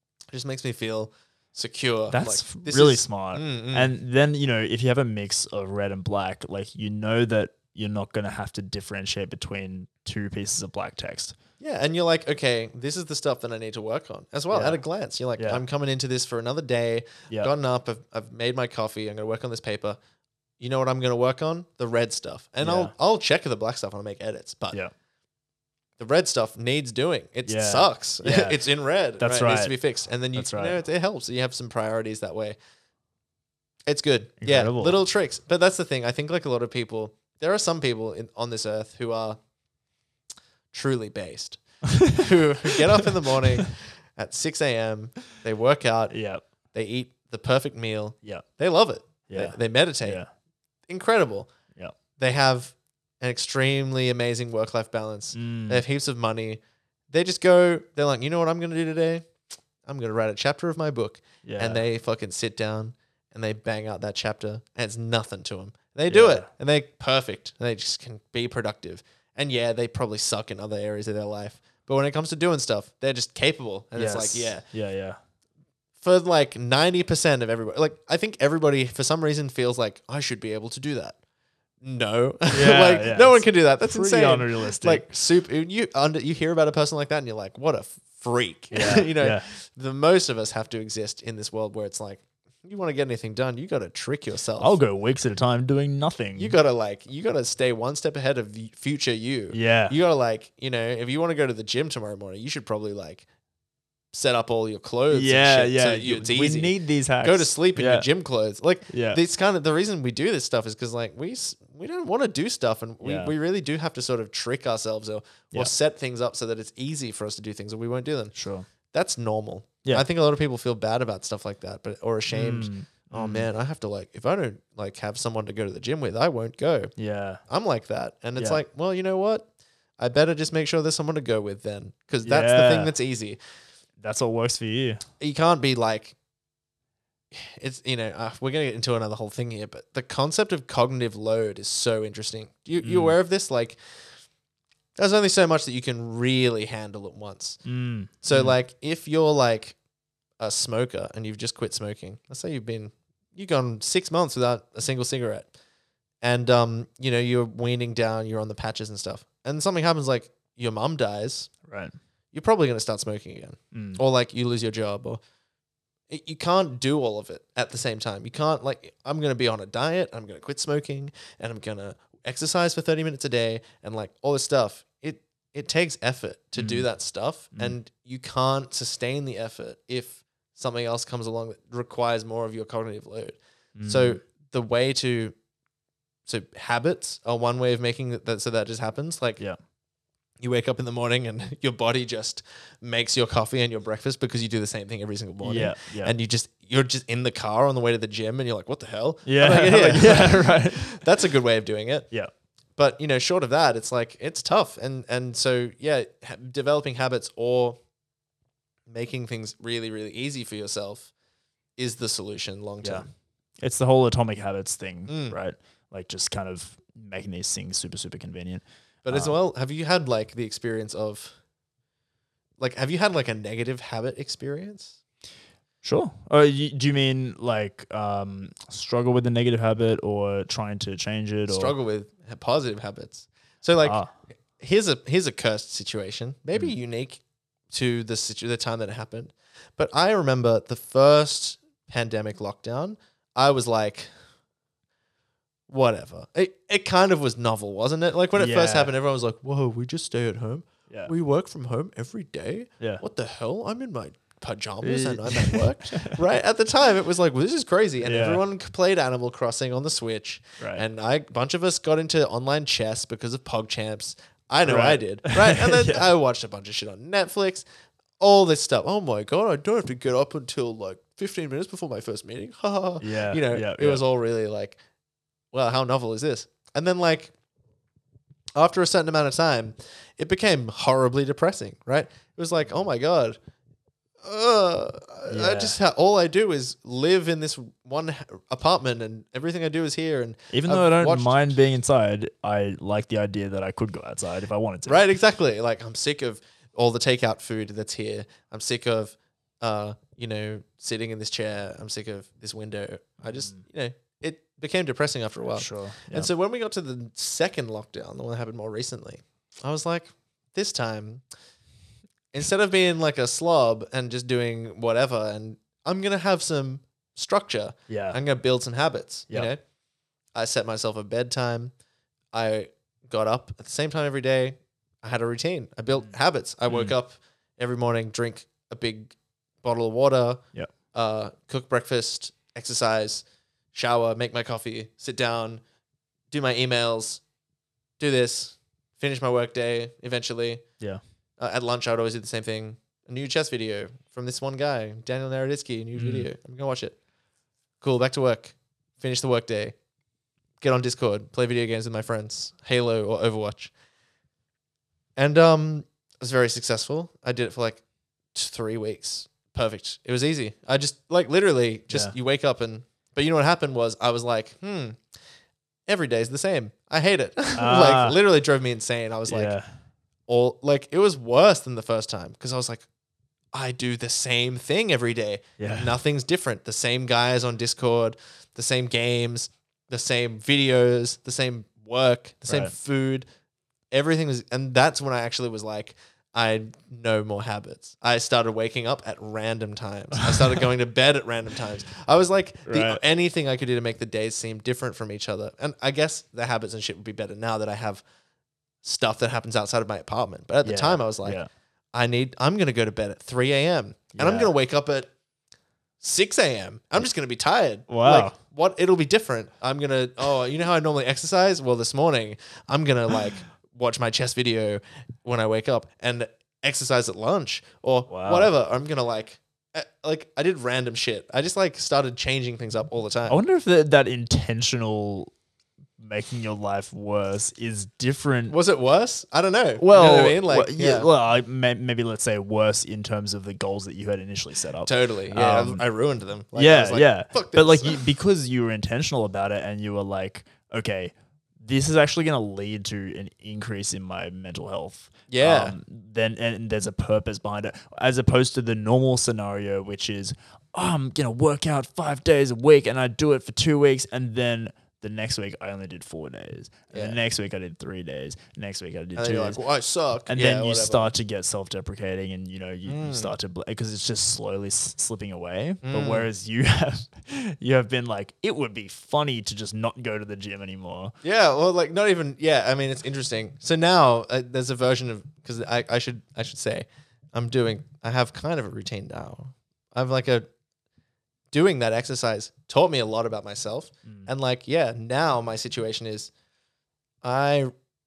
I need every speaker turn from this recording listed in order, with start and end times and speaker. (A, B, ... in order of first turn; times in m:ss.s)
0:00.3-0:03.9 A
0:02.1-0:11.4 B
0:11.6-0:20.0 A
0:14.5-0:14.8 B
0:15.4-0:15.6 B
0:20.6-0:24.8 A
0:22.6-0:22.9 B
0:26.0-0:32.6 A
0:27.4-0:28.6 B
0:29.2-0:29.7 B
0:30.3-0:30.8 B
0:33.9-0:39.4 A
0:34.4-0:35.0 B
0:40.7-0:46.2 A
0:41.9-0:42.3 B
0:46.1-0:46.4 B
0:46.7-0:50.2 A
0:49.3-0:50.3 B
0:50.9-0:51.5 A
0:52.2-0:56.6 A
0:55.3-0:55.8 B
0:57.1-0:59.2 A
0:59.8-1:14.6 A
1:01.4-1:01.8 B
1:06.1-1:06.5 B
1:14.0-1:15.2 B
1:16.0-1:21.2 A
1:21.8-1:34.8 A
1:22.5-1:25.1 B
1:28.7-1:29.4 B
1:34.6-1:36.6 B
1:36.4-1:43.2 A
1:39.5-1:40.0 B
1:44.1-1:58.3 A
1:45.1-1:48.0 B
1:48.9-1:49.2 B
1:53.0-1:53.3 B
1:58.3-1:58.6 B
1:58.9-2:06.9 A
2:02.3-2:03.5 B
2:07.0-2:07.4 B
2:07.5-2:09.5 A
2:10.0-2:13.4 A
2:12.2-2:12.9 B
2:14.0-2:15.0 B
2:15.2-2:16.2 A
2:17.3-2:23.8 A
2:22.8-2:23.2 B
2:25.0-2:27.6 A
2:27.6-2:28.6 B
2:28.2-2:29.8 A
2:30.4-2:35.5 A
2:36.2-2:41.5 A
2:41.7-2:41.9 B
2:42.3-2:45.2 A
2:43.7-2:44.0 B
2:46.1-3:05.3 A
2:56.6-2:56.9 B
3:03.8-3:04.2 B
3:06.3-3:09.4 A
3:10.4-3:22.1 A
3:15.4-3:16.1 B
3:19.2-3:20.9 B
3:22.8-3:27.8 A
3:28.9-3:31.1 A
3:31.8-3:33.1 A
3:33.6-3:39.3 B
3:35.1-3:35.4 A
3:39.0-3:41.3 A
3:42.6-3:45.0 A
3:45.8-3:51.7 B
3:51.5-3:54.0 A
3:53.8-3:54.1 B
3:54.6-3:57.2 A
3:57.7-4:04.1 A
4:05.7-4:27.6 A
4:08.4-4:08.9 B
4:14.8-4:16.2 B
4:18.0-4:18.4 B
4:24.6-4:26.0 B
4:28.2-4:34.8 A
4:33.0-4:34.0 B
4:35.5-4:37.3 A
4:38.6-4:43.4 A
4:44.2-4:51.5 A
4:45.3-4:45.8 B
4:50.5-4:55.0 B
4:54.8-5:11.2 A
5:03.3-5:03.6 B
5:05.5-5:06.3 B
5:12.3-5:19.6 A
5:17.9-5:18.2 B
5:20.3-5:21.7 A
5:22.3-5:35.6 A
5:26.7-5:26.9 B
5:36.3-5:37.2 A
5:38.0-5:40.6 A
5:41.4-5:47.0 A
5:46.0-5:46.3 B
5:47.8-5:49.8 A
5:50.6-5:53.7 A
5:55.2-5:57.8 A
5:58.3-6:05.0 A
6:05.9-6:09.5 A
6:07.6-6:08.2 B
6:09.3-6:09.7 B
6:10.3-6:12.8 A
6:13.5-6:23.2 A
6:15.6-6:15.9 B
6:22.4-6:22.7 B
6:23.9-6:38.0 A
6:32.7-6:33.0 B
6:38.8-6:41.4 A
6:40.6-6:41.5 B
6:41.9-6:45.1 A
6:44.2-6:44.5 B
6:46.0-7:03.4 A
6:47.9-6:48.3 B
6:58.1-6:58.5 B
7:03.3-7:05.3 B
7:06.0-7:08.5 B
7:08.5-7:11.1 A
7:09.8-7:15.8 B
7:14.8-7:18.0 A
7:16.6-7:39.6 B
7:25.3-7:25.8 A
7:36.9-7:37.2 A
7:39.2-7:41.1 A
7:40.3-7:51.1 B
7:42.9-7:43.3 A
7:45.8-7:46.3 A
7:51.2-8:00.4 A
8:01.5-8:06.3 A
8:07.2-8:07.7 A